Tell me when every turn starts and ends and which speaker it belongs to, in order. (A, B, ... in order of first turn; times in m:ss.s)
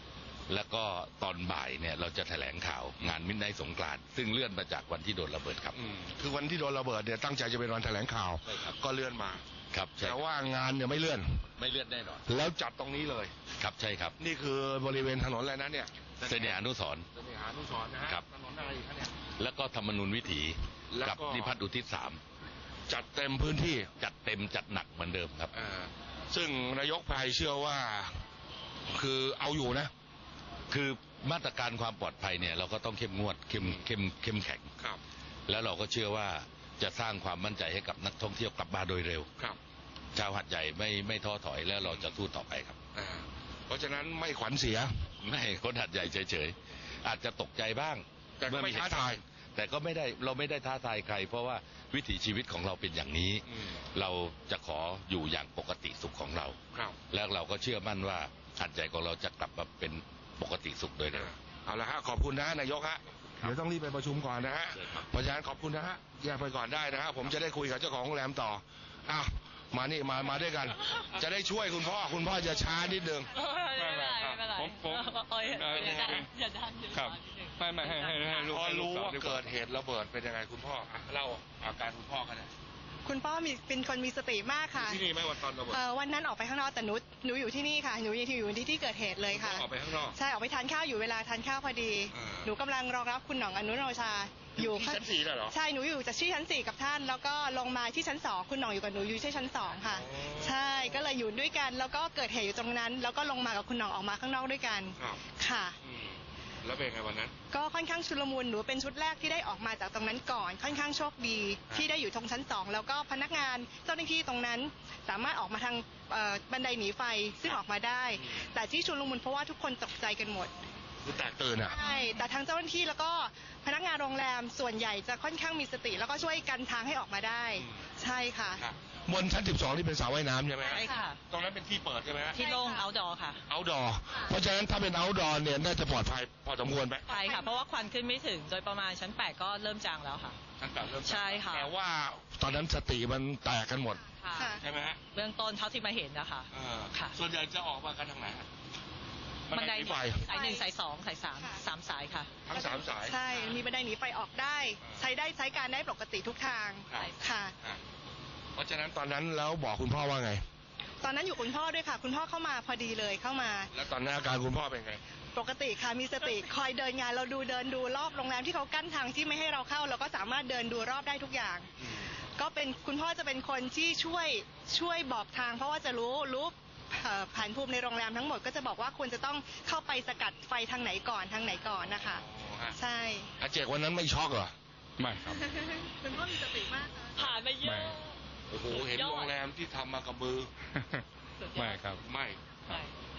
0:00.5-0:05.8 A
0:05.7-0:09.4 B
0:08.4-0:08.8 A
0:09.7-0:10.2 A
0:10.0-0:11.4 B
0:11.6-0:12.3 A
0:12.3-0:13.3 B
0:13.6-0:14.2 A
0:14.2-0:16.6 B
0:16.2-0:17.0 A
0:17.1-0:19.1 B
0:19.4-0:22.2 A
0:20.9-0:21.6 B
0:22.9-0:23.9 B
0:24.0-0:25.5 A
0:25.5-0:28.2 B
0:28.9-0:29.9 B
0:30.7-0:34.7 A
0:33.6-0:33.8 B
0:35.5-0:39.3 A
0:40.1-0:42.8 A
0:41.8-0:42.1 B
0:42.9-0:44.9 B
0:45.2-0:56.6 A
0:48.4-0:49.2 B
0:57.1-1:01.3 A
1:01.1-1:14.4 B
1:04.7-1:05.1 A
1:13.3-1:18.6 C
1:13.8-1:16.3 D
1:16.9-1:19.5 D
1:18.4-1:22.5 B
1:23.0-1:25.1 E
1:24.7-1:25.8 B
1:25.6-1:45.8 E
1:29.3-1:30.2 B
1:32.1-1:32.5 B
1:34.6-1:35.5 B
1:39.9-1:40.8 B
1:45.0-1:45.2 B
1:45.8-1:47.3 B
1:47.5-2:00.5 E
2:01.0-2:01.8 B
2:01.6-2:08.6 E
2:08.6-2:12.4 B
2:10.6-2:11.0 E
2:10.6-2:11.2 C
2:12.4-2:12.9 E
2:12.4-2:13.4 C
2:13.5-2:17.0 B
2:17.1-2:17.9 E
2:17.1-2:20.4 C
2:20.6-2:24.0 B
2:21.0-2:21.7 C
2:23.9-2:24.6 E
2:24.2-2:24.6 C
2:24.6-2:25.0 B
2:25.1-2:27.2 C
2:26.5-2:28.5 B
2:29.5-2:30.2 B
2:29.5-2:32.3 C
2:30.2-2:30.7 E
2:31.4-2:31.6 E
2:32.4-2:33.2 B
2:32.5-2:37.5 E
2:33.3-2:33.6 C
2:38.6-2:40.4 B
2:41.0-2:43.7 E
2:43.7-2:45.0 B
2:45.3-2:51.7 E
2:52.4-3:02.2 E
3:02.1-3:02.7 B
3:02.7-3:03.3 E
3:03.4-3:04.5 B
3:05.0-3:05.4 D
3:05.3-3:07.2 E
3:07.2-3:08.1 C
3:07.6-3:08.0 D
3:08.5-3:10.5 B
3:08.7-3:09.4 C
3:11.4-3:11.9 C
3:11.6-3:12.0 D
3:12.0-3:12.4 B
3:12.7-3:12.9 C